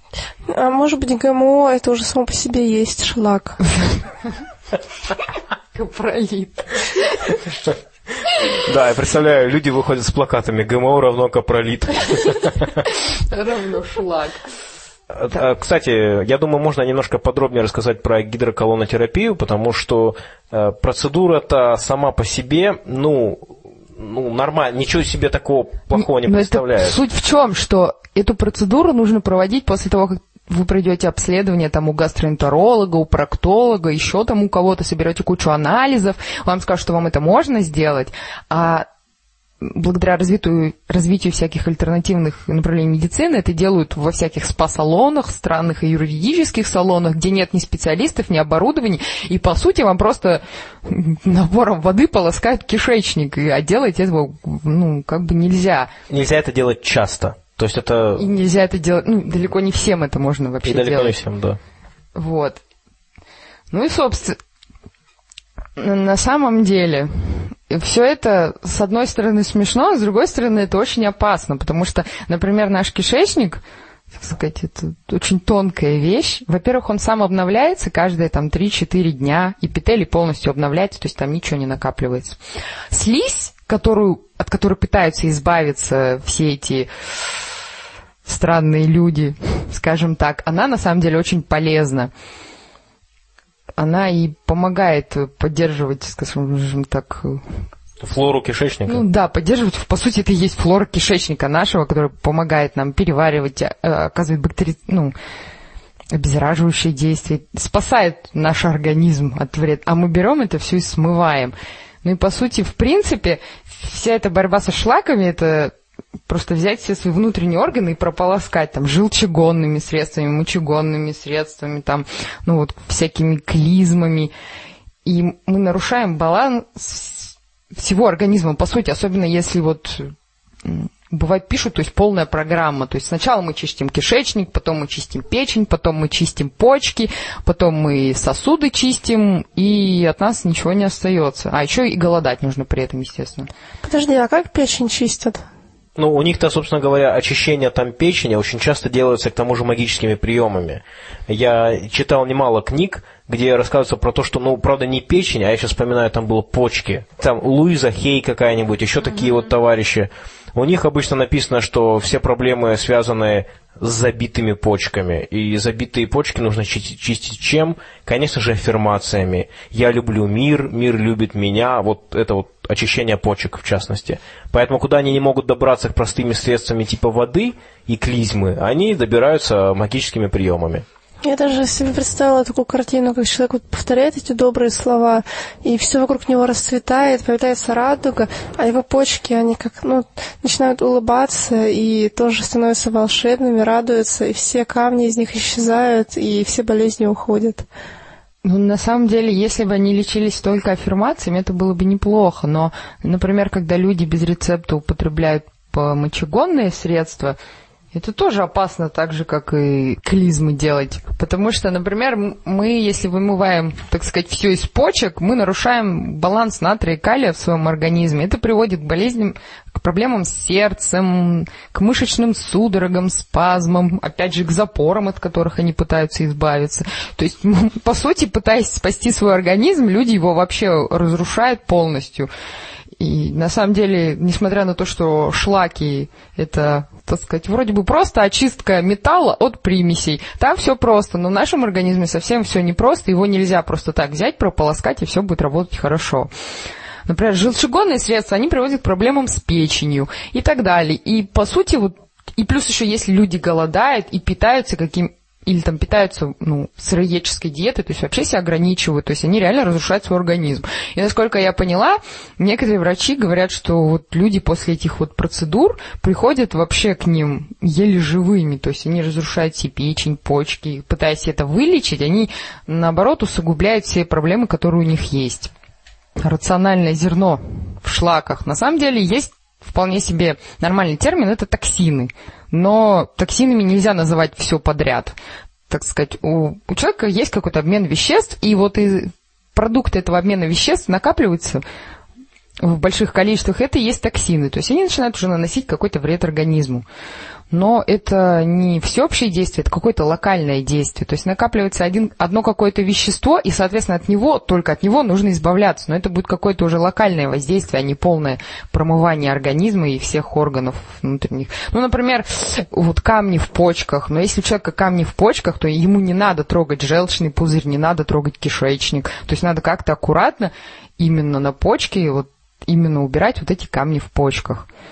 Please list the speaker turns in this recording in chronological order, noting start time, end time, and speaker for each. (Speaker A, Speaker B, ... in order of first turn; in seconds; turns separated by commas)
Speaker A: 0.5-3.6, Speaker B: 5.7-7.3, Speaker C: 8.5-12.7, Speaker B: 12.8-14.5, Speaker C: 15.1-27.0, Speaker B: 25.9-38.9, Speaker B: 39.6-55.9, Speaker C: 56.1-58.2, Speaker B: 58.2-61.2, Speaker C: 60.6-61.6, Speaker B: 62.1-62.6, Speaker B: 63.7-64.4, Speaker B: 65.8-73.6, Speaker B: 74.1-82.4, Speaker B: 82.9-86.9, Speaker B: 88.2-92.1, Speaker B: 93.8-97.4, Speaker C: 98.0-99.0, Speaker B: 98.9-105.1, Speaker B: 106.1-115.7, Speaker B: 116.3-124.3, Speaker B: 125.0-143.5, Speaker A: 143.8-145.4, Speaker C: 146.0-180.8, Speaker A: 181.2-197.7, Speaker B: 198.4-207.4, Speaker B: 207.9-232.3, Speaker B: 233.0-246.3, Speaker B: 247.1-275.5, Speaker B: 276.2-285.1, Speaker B: 285.7-291.6, Speaker B: 292.6-296.8, Speaker B: 297.5-324.7